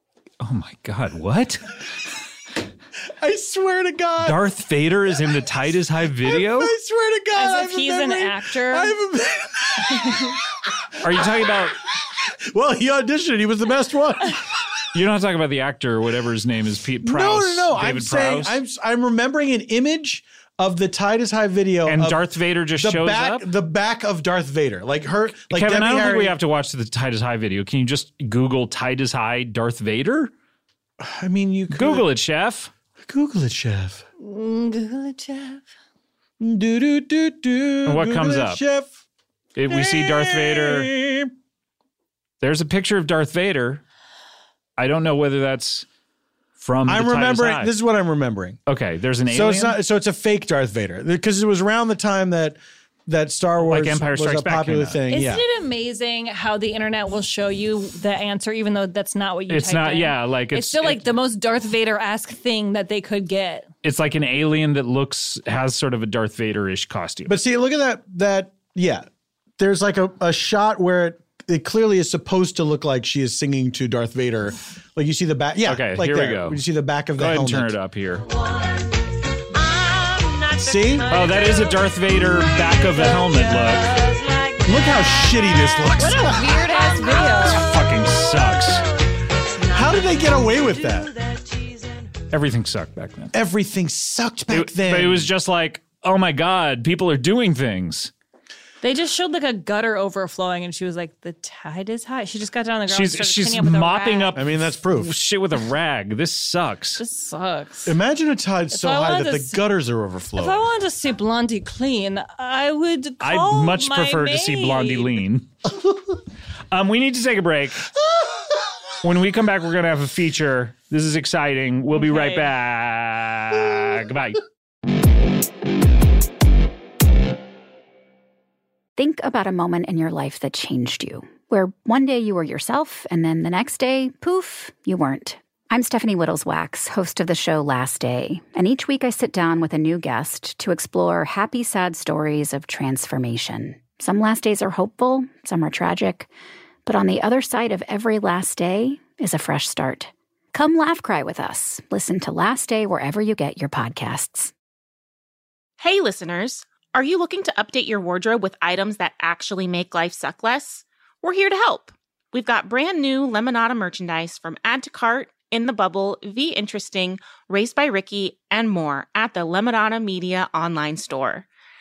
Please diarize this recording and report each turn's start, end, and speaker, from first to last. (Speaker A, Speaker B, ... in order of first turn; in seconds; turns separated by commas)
Speaker A: 0.4-1.7, Speaker B: 3.2-4.4, Speaker A: 4.2-6.7, Speaker B: 6.2-10.4, Speaker C: 7.3-8.9, Speaker A: 11.0-11.7, Speaker B: 12.2-14.4, Speaker A: 14.9-18.6, Speaker B: 17.0-26.4, Speaker A: 21.9-23.4, Speaker A: 25.5-30.3, Speaker B: 31.0-32.1, Speaker A: 31.7-32.7, Speaker B: 33.0-34.0, Speaker C: 34.2-35.6, Speaker B: 36.4-38.9, Speaker A: 37.8-38.6, Speaker A: 39.5-40.9, Speaker B: 39.7-41.3, Speaker A: 42.4-43.8, Speaker A: 44.8-45.9, Speaker A: 46.6-47.7, Speaker B: 46.9-48.6, Speaker A: 48.6-49.8, Speaker B: 49.3-55.4, Speaker A: 53.6-55.0, Speaker C: 55.1-63.7, Speaker A: 59.5-61.1, Speaker A: 63.8-67.3, Speaker B: 67.3-69.1, Speaker B: 69.6-77.7, Speaker A: 75.6-76.6, Speaker A: 77.2-78.3, Speaker B: 80.5-81.2, Speaker A: 81.1-83.9, Speaker B: 84.6-86.6, Speaker C: 86.0-87.6, Speaker A: 87.4-88.8, Speaker B: 89.7-91.1, Speaker A: 92.3-93.3, Speaker B: 93.3-95.3, Speaker A: 94.5-98.1, Speaker C: 98.8-104.4, Speaker A: 102.9-107.0, Speaker B: 104.3-105.1, Speaker C: 107.0-108.0, Speaker B: 107.8-110.7, Speaker C: 108.7-109.6, Speaker C: 110.3-115.2, Speaker A: 113.2-115.5, Speaker A: 116.7-117.9, Speaker A: 119.0-124.4, Speaker C: 121.9-122.5, Speaker D: 129.0-146.3, Speaker D: 146.8-154.5, Speaker E: 155.8-171.5